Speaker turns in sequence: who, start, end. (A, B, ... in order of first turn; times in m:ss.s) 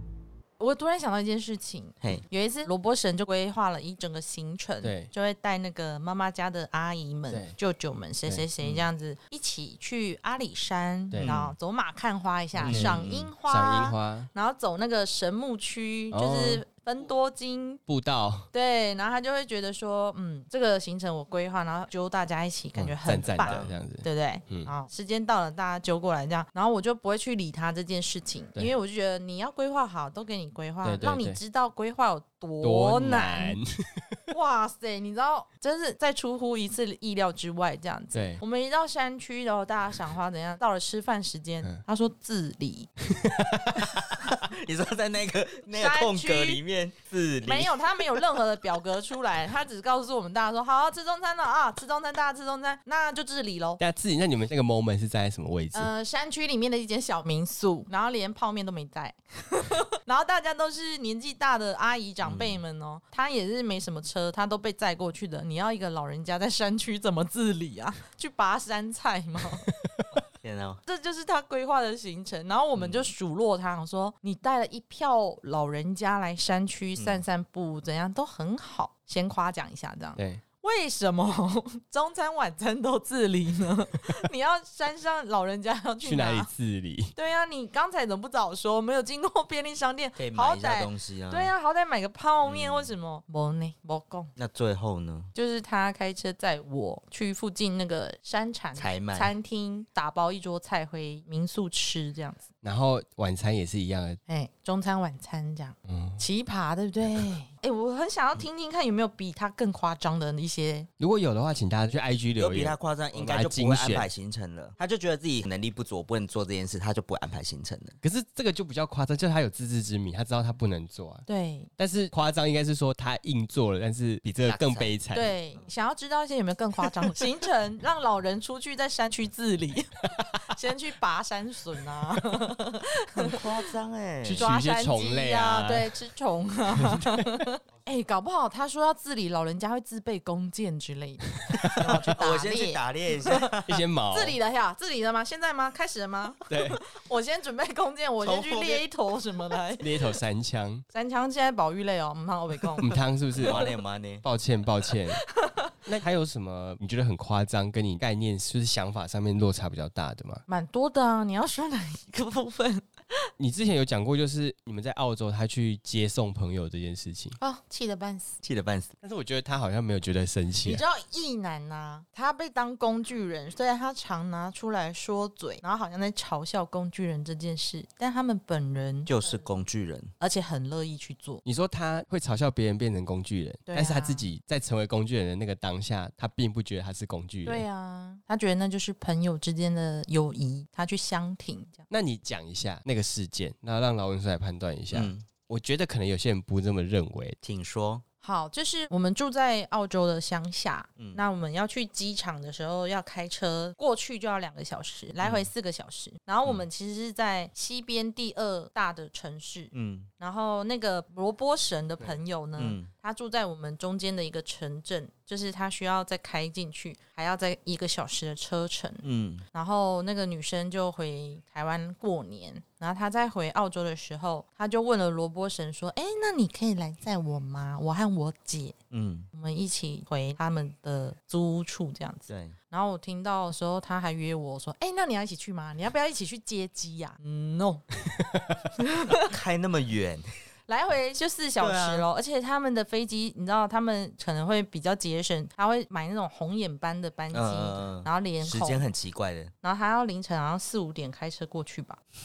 0:00.6-0:17.8 A
0:04.8-0:05.1 B
0:07.3-0:07.6 B
0:08.6-0:08.9 C
0:11.2-0:11.6 C
0:12.6-0:14.3 B
0:12.6-0:13.3 C
0:16.1-0:16.6 B
0:17.9-0:18.5 B
0:18.5-0:33.6 A
0:22.8-0:24.7 B
0:23.4-0:23.7 C
0:30.8-0:31.4 B
0:32.6-0:34.2 B
0:34.3-0:42.9 A
0:38.1-0:38.4 B
0:43.1-0:43.9 B
0:44.2-0:48.2 C
0:45.7-0:46.6 A
0:47.4-0:53.8 A
0:53.8-0:55.9 B
0:55.7-1:09.7 A
1:02.2-1:02.6 C
1:10.4-1:10.8 C
1:10.9-1:26.5 A
1:12.8-1:13.1 C
1:20.2-1:20.4 B
1:26.0-1:27.1 B
1:27.2-1:34.3 A
1:30.2-1:31.5 C
1:32.4-1:32.9 C
1:34.4-1:35.3 C
1:35.3-1:42.5 A
1:38.8-1:39.3 C
1:42.6-1:44.2 B
1:44.3-1:50.9 A
1:45.9-1:46.2 B
1:51.0-1:54.1 B
1:52.4-1:58.0 C
1:58.0-2:01.2 B
2:01.3-2:01.7 A
2:01.8-2:05.3 B
2:04.4-2:05.0 C
2:05.1-2:13.4 A
2:13.2-2:14.5 C
2:14.2-2:16.0 B
2:14.4-2:23.5 A
2:16.8-2:17.3 B
2:21.8-2:23.8 C
2:23.7-2:24.4 B
2:24.1-2:29.9 A
2:26.5-2:26.8 B
2:28.2-2:28.9 C
2:29.8-2:30.8 B
2:30.9-2:33.0 A
2:32.8-2:35.2 B
2:33.3-2:34.2 C
2:35.3-2:35.7 A
2:35.8-2:40.4 B
2:40.5-2:42.9 A
2:43.4-2:47.4 B
2:47.4-2:48.4 A
2:48.4-2:48.9 C
2:49.0-2:50.8 B
2:50.6-2:59.3 A
2:59.1-3:00.1 C
3:00.2-3:01.4 A
3:01.4-3:07.6 B
3:03.7-3:04.3 A
3:07.4-3:11.9 A
3:11.9-3:17.4 B
3:14.9-3:15.2 C
3:17.4-3:18.0 C
3:18.2-3:48.8 A
3:25.2-3:25.5 C
3:29.7-3:30.1 C
3:32.6-3:32.9 C
3:39.0-3:39.4 C
3:48.9-3:49.3 C
3:49.3-3:57.9 A
3:52.3-3:52.6 C
3:58.1-3:58.6 B
3:58.8-3:59.3 A
3:59.1-4:00.3 C
4:00.7-4:08.9 A
4:01.6-4:02.1 C
4:07.3-4:09.5 C
4:09.6-4:12.0 A